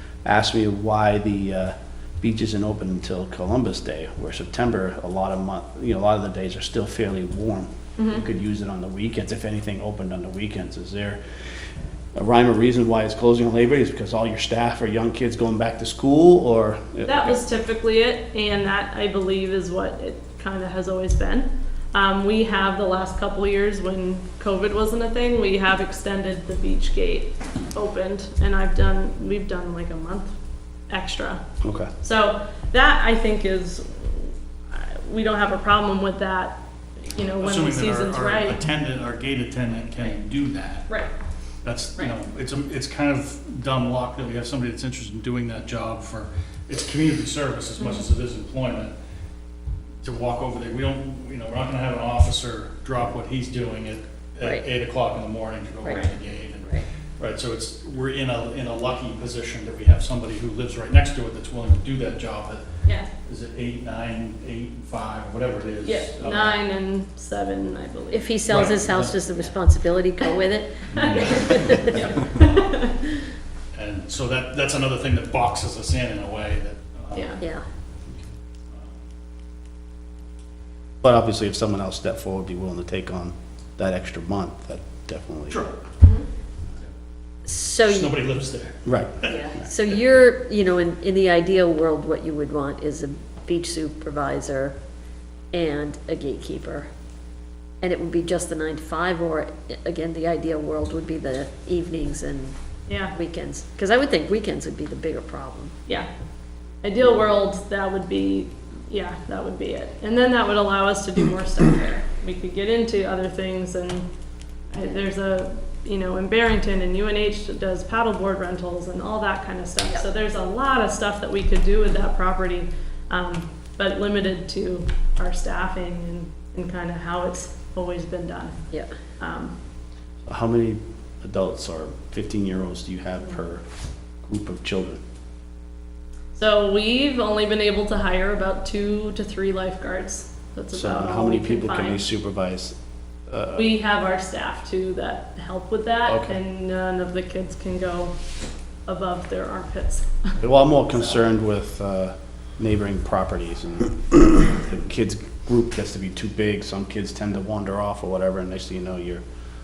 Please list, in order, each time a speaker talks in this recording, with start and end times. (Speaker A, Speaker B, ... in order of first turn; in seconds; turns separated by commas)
Speaker A: 0.2-11.2, Speaker B: 8.0-8.2, Speaker A: 12.2-17.4, Speaker B: 17.1-30.3, Speaker B: 30.9-31.4, Speaker A: 31.6-31.9, Speaker B: 32.0-38.6, Speaker C: 37.4-40.9, Speaker C: 41.6-48.9, Speaker B: 47.8-48.0, Speaker C: 50.0-62.7, Speaker D: 54.4-54.7, Speaker B: 55.9-56.1, Speaker B: 62.9-63.1, Speaker C: 63.2-66.6, Speaker B: 65.8-68.7, Speaker D: 68.1-72.3, Speaker C: 68.5-69.2, Speaker C: 70.9-72.0, Speaker B: 70.9-72.9, Speaker C: 73.7-77.5, Speaker B: 77.1-77.4, Speaker D: 77.4-77.7, Speaker A: 81.0-85.6, Speaker C: 85.5-85.8, Speaker D: 87.5-88.2, Speaker C: 87.8-89.7, Speaker A: 88.8-89.2, Speaker D: 89.4-94.8, Speaker D: 95.5-96.9, Speaker D: 97.8-102.5, Speaker B: 102.9-103.2, Speaker D: 103.1-105.7, Speaker B: 106.8-114.1, Speaker B: 114.7-128.6, Speaker B: 129.2-129.5, Speaker A: 130.3-133.6, Speaker A: 134.2-135.0, Speaker B: 136.3-142.0, Speaker A: 140.7-142.8, Speaker A: 143.3-143.7, Speaker B: 143.6-148.2, Speaker A: 146.1-146.4, Speaker B: 148.9-150.3, Speaker A: 150.4-159.2